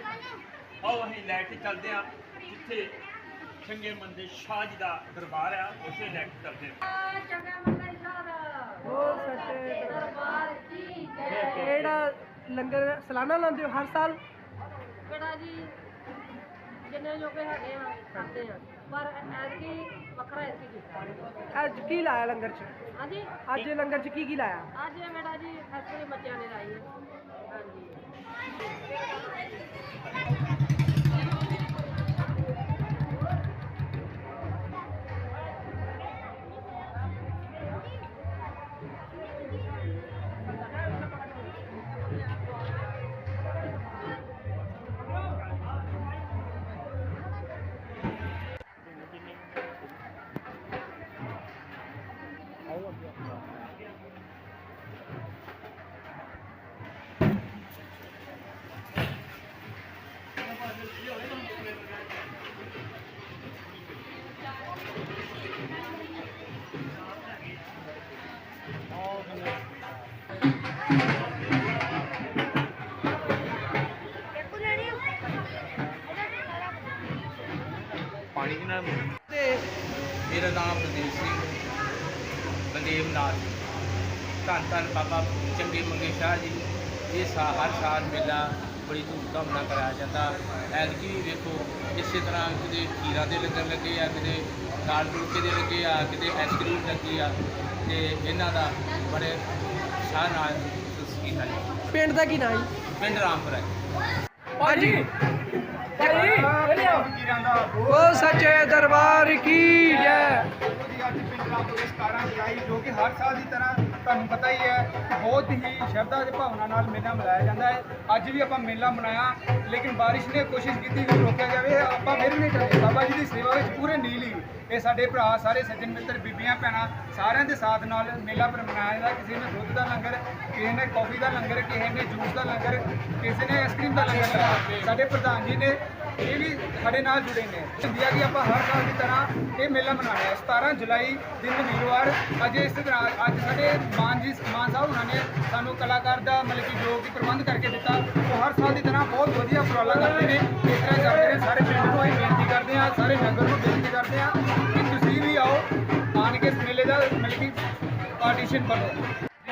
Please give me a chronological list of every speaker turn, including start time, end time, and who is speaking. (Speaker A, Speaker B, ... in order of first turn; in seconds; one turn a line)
Speaker A: 0.8-3.0
Speaker A: 3.6-6.8
Speaker B: 6.8-11.6
Speaker C: 8.8-10.0
Speaker A: 11.3-12.0
Speaker C: 11.6-14.2
Speaker B: 15.1-15.7
Speaker B: 16.8-21.2
Speaker C: 21.5-22.8
Speaker B: 22.9-23.6
Speaker C: 23.4-24.7
Speaker B: 24.7-26.9
Speaker B: 27.5-28.0
Speaker D: 78.3-79.0
Speaker D: 80.3-81.6
Speaker D: 82.7-83.6
Speaker D: 84.4-99.4
Speaker D: 99.9-102.0
Speaker C: 101.9-102.7
Speaker D: 102.8-103.7
Speaker C: 104.6-105.1
Speaker E: 104.6-105.0
Speaker E: 106.0-108.7
Speaker C: 106.0-107.0
Speaker C: 107.9-110.4
Speaker E: 109.5-157.6
Speaker E: 158.2-159.0